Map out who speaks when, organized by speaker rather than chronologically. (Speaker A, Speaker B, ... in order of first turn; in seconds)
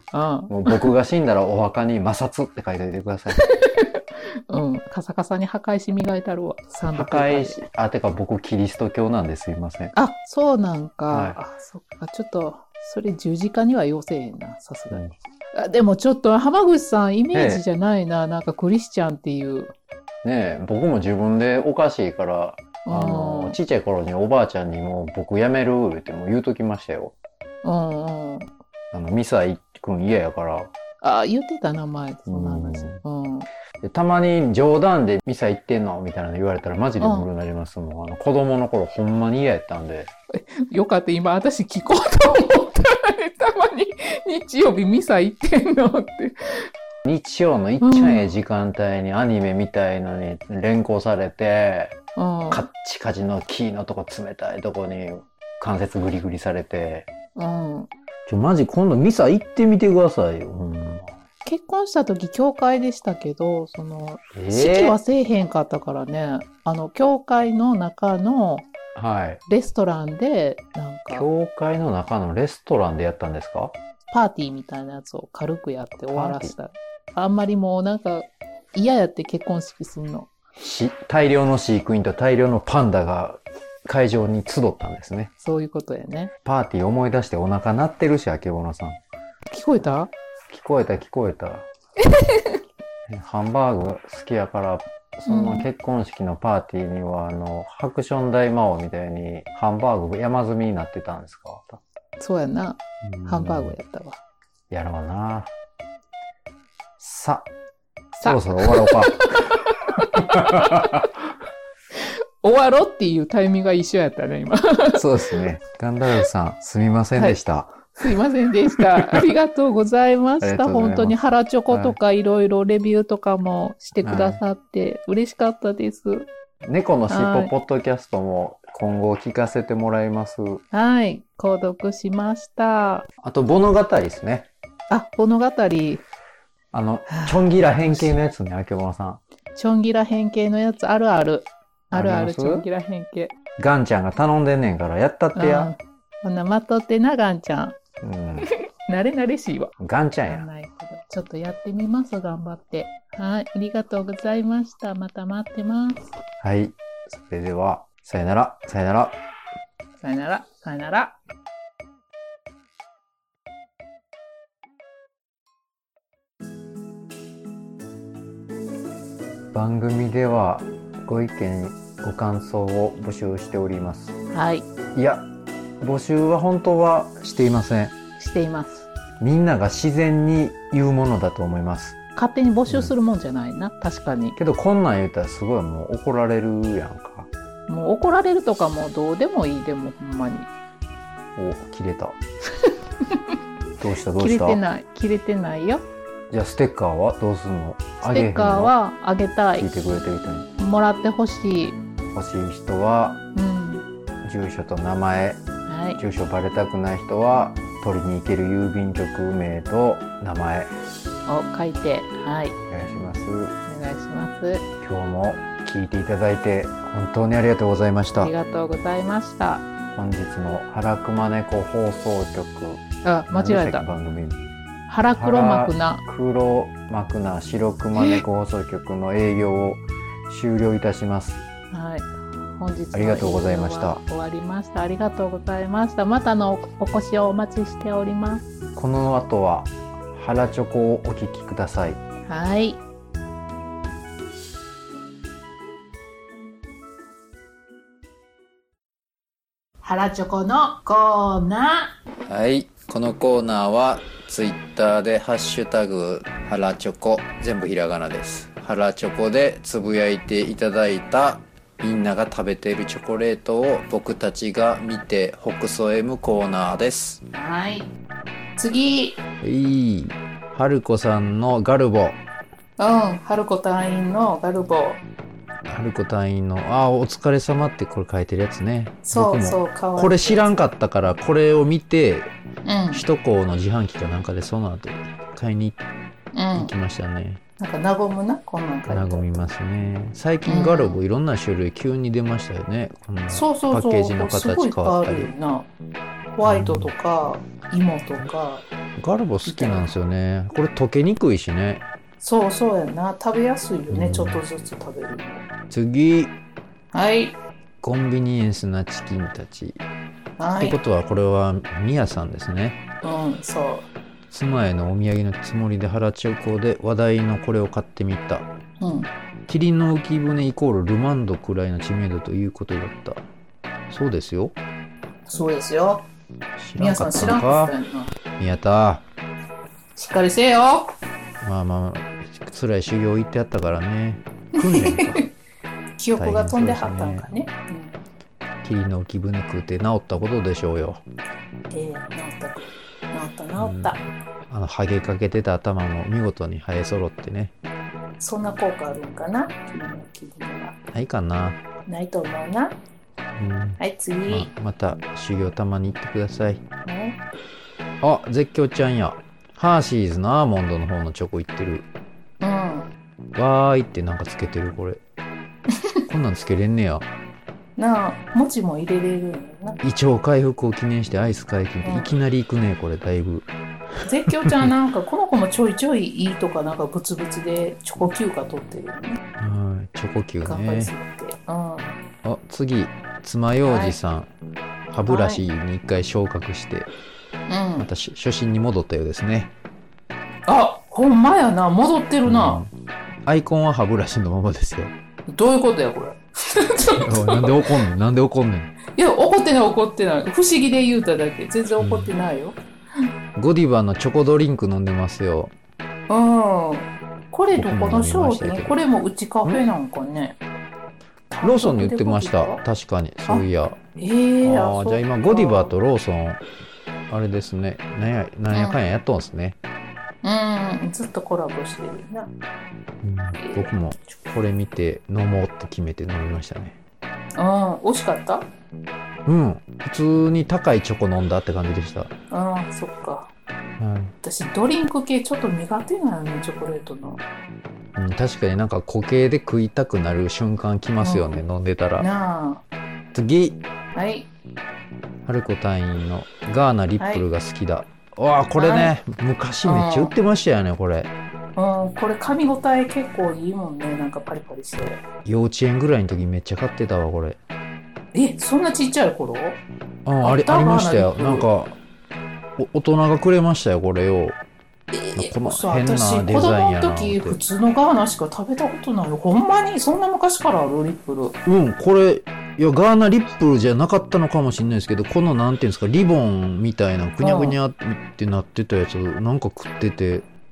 Speaker A: 0.1-0.9, 3.4-7.6, 9.9-19.7, 22.8-23.6, 27.6-28.5, 31.0-33.5, 37.0-37.3, 40.4-46.4, 47.8-48.3, 52.1-52.7, 57.4-57.9, 61.4-68.7, 69.5-71.2, 74.1-80.3, 85.4-86.3, 89.5-90.1, 92.1-92.6, 95.3-95.7, 102.2-104.2, 108.1-110.9, 112.4-115.3, 118.0-126.3, 127.1-127.5, 130.7-133.1, 134.9-136.0, 137.1-138.2, 139.5-143.3, 145.3-147.8, 148.9-149.7, 150.3-156.0, 160.0-161.2, 174.3-174.7, 178.2-178.9, 182.2-184.4, 187.7-190.5, 193.1-193.3, 194.2-195.8, 198.0-199.7, 200.6-201.8, 203.3-203.8, 205.7-206.0, 211.3-212.6, 213.7-214.6, 218.2-219.6, 223.0-223.8, 224.9-226.0, 231.7-238.4, 242.3-242.8, 249.8-251.9, 267.3-267.9, 268.6-269.2, 272.8-275.0, 279.0-280.6, 282.6-283.0, 286.3-286.7, 287.6-289.4, 290.5-291.0, 293.3-295.7, 296.3-298.6, 299.4-299.9, 302.2-305.4, 306.9-307.4, 310.4-310.8, 313.0-313.9, 318.8-319.1, 325.3-326.1, 326.8-328.1, 329.9-330.9, 334.6-335.2, 336.0-338.0, 341.7-344.0, 348.2-350.8, 351.9-352.8, 353.8-354.5, 356.8-357.2, 362.4-362.9, 367.8-369.8, 371.8-372.1, 374.0-379.2, 380.4-382.0, 383.6-384.0, 385.1-385.4, 387.5-387.9, 390.5-392.6, 395.3-397.5, 398.9-402.6, 406.1-410.4, 411.3-412.6, 414.0-415.7, 418.5-418.8, 420.2-422.3, 423.4-423.7, 427.4-428.5, 432.3-433.3, 434.2-437.2, 441.0-441.4, 442.0-442.6, 443.9-444.3, 447.0-447.2, 448.6-448.9, 449.6-450.1, 451.6-455.0, 458.1-459.6, 460.2-461.5, 464.9-471.4, 477.2-477.6
Speaker B: 0.5-3.4, 6.9-9.9, 11.1-11.4, 17.3-17.6, 20.2-27.1, 28.9-30.7, 32.3-33.0, 33.8-40.1, 47.0-52.0, 52.5-57.1, 58.2-61.1, 64.3-65.0, 68.9-69.4, 71.1-73.7, 76.1-76.5, 80.6-85.3, 86.4-89.0, 90.5-91.7, 93.1-101.8, 103.0-103.8, 104.7-105.5, 107.0-107.5, 108.2-109.6, 110.1-111.0, 114.9-118.0, 118.8-119.2, 120.4-122.0, 124.0-124.4, 126.6-130.6, 133.2-134.5, 136.7-139.2, 141.9-142.7, 143.6-145.7, 148.0-148.5, 149.8-150.5, 156.4-159.2, 169.5-174.1, 174.9-175.3, 175.8-177.9, 179.2-182.0, 182.7-182.9, 184.3-187.3, 191.3-192.2, 193.8-194.6, 196.3-198.7, 199.6-200.5, 202.1-203.2, 204.2-205.4, 206.0-210.7, 212.7-213.5, 214.8-218.3, 219.9-224.4, 225.1-231.4, 232.9-234.0, 238.8-242.0, 252.3-267.2, 269.4-272.2, 275.6-282.3, 282.9-285.8, 286.5-287.4, 288.9-295.3, 296.4-296.9, 299.0-301.8, 303.9-304.4, 305.7-306.3, 307.8-309.8, 310.6-312.8, 314.3-318.5, 319.5-323.2, 323.9-324.6, 326.6-327.7, 328.4-329.0, 331.4-335.2, 336.2-337.3, 338.6-341.0, 343.6-347.5, 350.9-351.6, 353.4-356.6, 358.0-361.9, 363.3-365.0, 366.1-367.1, 369.8-373.5, 379.4-380.9, 382.2-384.3, 384.9-386.9, 387.8-389.5, 392.2-392.7, 393.2-394.9, 397.0-398.7, 401.8-402.1, 403.4-405.5, 407.5-408.8, 411.4-413.8, 414.4-416.4, 417.1-419.6, 423.0-426.8, 429.2-432.1, 433.8-434.1, 437.9-442.1, 443.1-443.6, 445.2-451.1, 455.2-457.4, 460.0-461.8, 462.6-464.4, 465.1-467.4, 471.4-480.2